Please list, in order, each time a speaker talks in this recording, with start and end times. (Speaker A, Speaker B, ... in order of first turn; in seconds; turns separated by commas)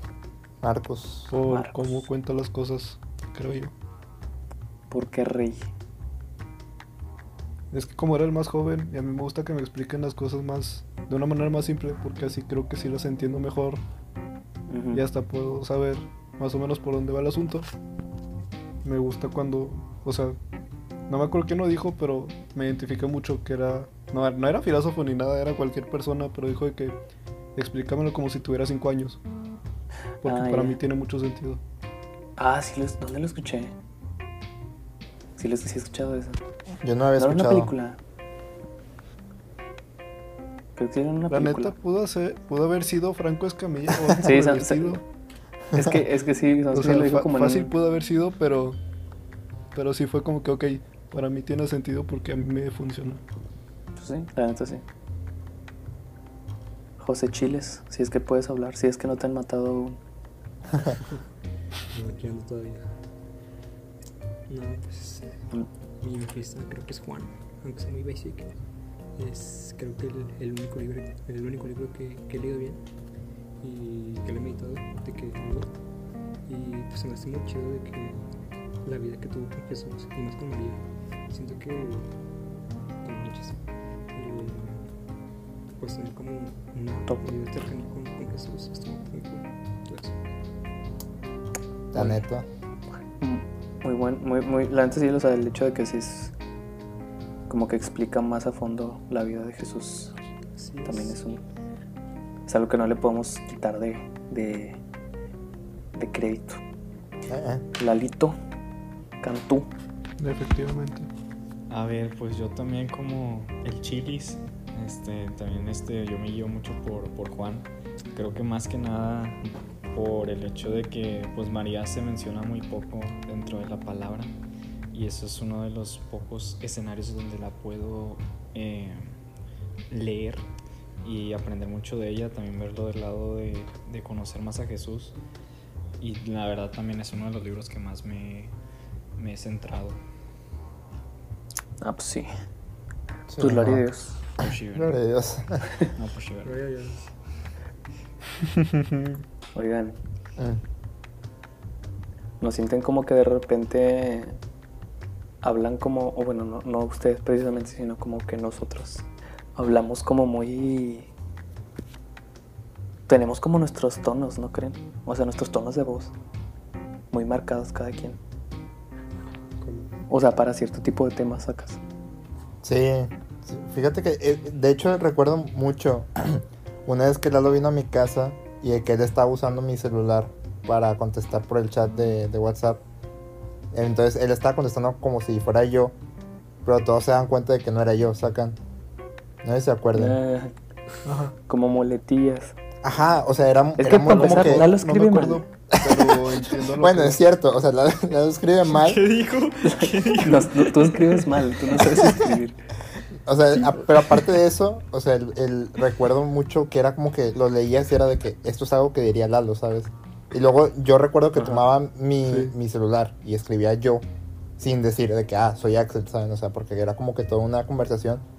Speaker A: 0.6-1.3, Speaker B: 1.3-3.7, Speaker C: 1.4-2.0, Speaker C: 4.9-5.7, Speaker B: 7.7-13.8, Speaker C: 14.7-15.0, Speaker B: 14.9-17.7, Speaker B: 18.8-20.4, Speaker B: 21.1-27.0, Speaker B: 27.6-29.2, Speaker C: 30.2-30.8, Speaker B: 30.2-31.6, Speaker C: 32.4-33.8, Speaker C: 35.4-36.4, Speaker A: 36.8-37.7, Speaker C: 37.2-38.0, Speaker C: 40.8-41.7, Speaker B: 41.3-45.0, Speaker C: 44.1-45.0, Speaker A: 45.7-46.0, Speaker C: 45.7-47.7, Speaker B: 46.7-48.8, Speaker B: 49.7-53.2, Speaker C: 54.0-54.8, Speaker C: 57.0-60.0, Speaker D: 61.9-62.9, Speaker D: 64.5-65.5, Speaker D: 66.0-68.5, Speaker D: 69.2-72.8, Speaker D: 73.6-75.7, Speaker D: 76.5-78.2, Speaker D: 78.8-82.1, Speaker D: 83.0-83.6, Speaker D: 84.1-84.8, Speaker D: 85.7-90.2, Speaker C: 87.1-87.3, Speaker A: 91.9-92.5, Speaker C: 91.9-92.2, Speaker C: 93.2-96.3, Speaker C: 97.5-100.1, Speaker D: 100.5-101.2, Speaker C: 100.8-101.4, Speaker C: 102.5-104.8, Speaker C: 105.9-106.6, Speaker A: 107.3-107.6, Speaker C: 107.8-108.3, Speaker C: 109.2-109.7, Speaker B: 110.2-111.1, Speaker E: 111.7-119.4, Speaker E: 119.9-124.3, Speaker E: 124.9-129.2, Speaker E: 129.9-130.5, Speaker E: 131.0-135.2, Speaker E: 136.0-138.5, Speaker E: 139.2-140.0, Speaker C: 141.8-142.3, Speaker A: 143.3-143.8, Speaker C: 143.4-144.2, Speaker E: 144.4-145.0, Speaker A: 144.7-145.7, Speaker E: 145.9-146.6, Speaker D: 146.4-147.0, Speaker B: 148.4-149.2, Speaker C: 149.5-150.0, Speaker C: 152.4-154.4, Speaker C: 155.4-161.1, Speaker C: 163.1-166.1, Speaker C: 167.1-168.2, Speaker D: 169.6-169.9, Speaker C: 170.1-171.8, Speaker A: 172.6-182.8, Speaker A: 183.7-185.9, Speaker A: 186.6-188.6, Speaker A: 189.4-190.2, Speaker C: 189.9-190.5, Speaker B: 191.0-191.3, Speaker C: 191.5-192.6, Speaker A: 192.8-194.8, Speaker C: 193.8-195.4, Speaker B: 194.0-197.2, Speaker A: 195.7-196.2, Speaker A: 196.8-199.0, Speaker E: 198.7-202.2, Speaker C: 199.6-202.6, Speaker A: 203.2-214.0, Speaker C: 211.4-211.6, Speaker B: 212.3-212.5, Speaker A: 214.6-218.2